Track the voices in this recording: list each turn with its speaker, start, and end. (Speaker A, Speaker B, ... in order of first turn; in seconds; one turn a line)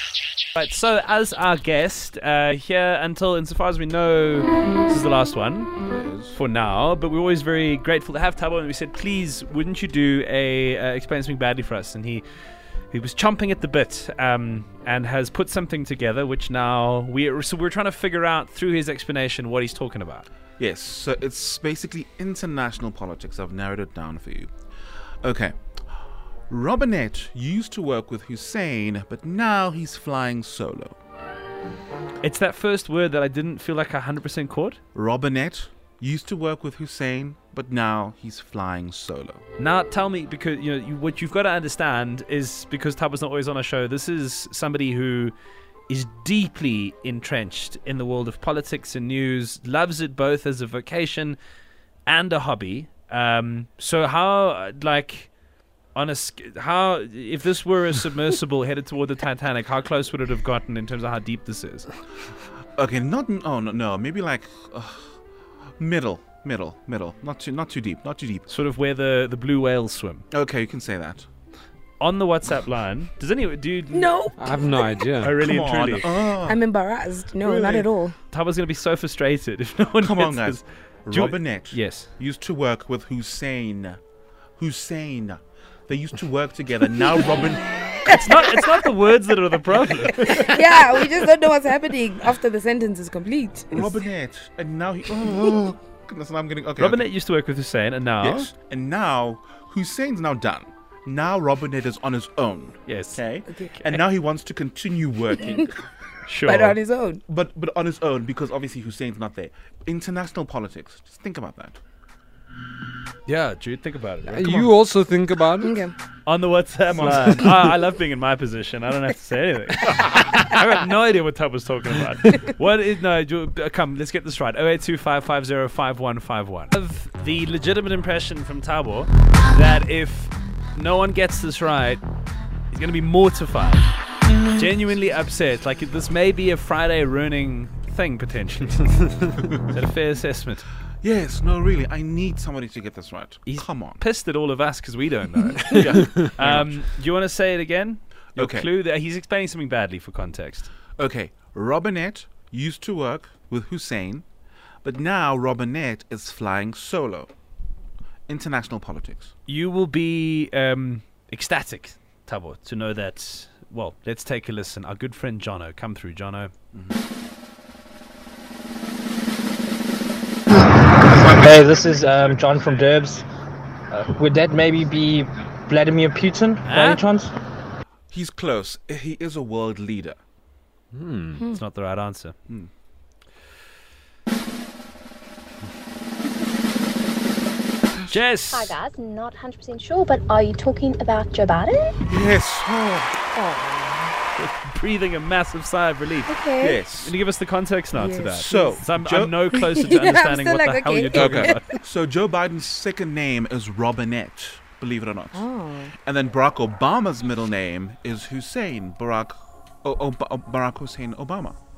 Speaker A: 0.5-5.7
Speaker B: 5.9-6.4
Speaker A: 6.3-12.2
Speaker A: 12.9-20.2
Speaker B: 20.6-24.5
Speaker B: 25.2-25.5
Speaker B: 26.5-30.9
Speaker A: 32.2-34.8
Speaker B: 34.9-39.4
Speaker A: 39.6-45.3
Speaker A: 45.9-51.4
Speaker A: 52.0-55.4
Speaker A: 55.9-61.9
Speaker B: 62.8-65.1
Speaker B: 65.8-68.5
Speaker A: 68.5-70.2
Speaker B: 70.3-71.3
Speaker A: 72.0-74.2
Speaker C: 73.9-75.0
Speaker D: 74.4-75.4
Speaker A: 75.2-76.1
Speaker B: 75.3-76.6
Speaker C: 76.5-78.2
Speaker B: 77.4-77.9
Speaker A: 78.3-82.1
Speaker B: 80.0-84.0
Speaker B: 84.6-88.0
Speaker A: 88.0-91.2
Speaker C: 90.2-93.7
Speaker B: 93.7-97.0
Speaker A: 96.8-98.5
Speaker B: 98.2-105.7
Speaker A: 102.9-103.2
Speaker A: 106.2-106.8
Speaker C: 106.5-107.2
Speaker B: 107.3-111.8
Speaker A: 113.3-114.7
Speaker D: 114.3-115.8
Speaker C: 115.7-115.9
Speaker A: 116.2-132.0
Speaker B: 117.0-117.6
Speaker A: 132.7-133.9
Speaker A: 134.5-140.7
Speaker B: 141.0-144.0
Speaker A: 143.4-150.7
Speaker B: 145.7-146.8
Speaker B: 148.3-148.7
Speaker B: 151.0-154.2
Speaker B: 154.8-157.3
Speaker B: 158.3-159.3
Speaker A: 159.5-166.5
Speaker E: 171.1-173.2
Speaker E: 173.9-177.3
Speaker A: 176.6-177.0
Speaker B: 178.1-180.2
Speaker D: 180.9-181.4
Speaker A: 181.4-182.3
Speaker B: 187.9-188.2
Speaker A: 188.1-188.7
Speaker F: 188.5-192.0
Speaker B: 192.1-193.1
Speaker C: 193.3-194.1
Speaker A: 194.3-196.3
Speaker C: 196.3-196.6
Speaker B: 196.6-197.1
Speaker A: 196.9-201.7
Speaker C: 197.9-198.5
Speaker B: 198.4-199.3
Speaker C: 199.6-201.6
Speaker B: 201.1-205.4
Speaker C: 205.3-205.9
Speaker B: 206.0-211.6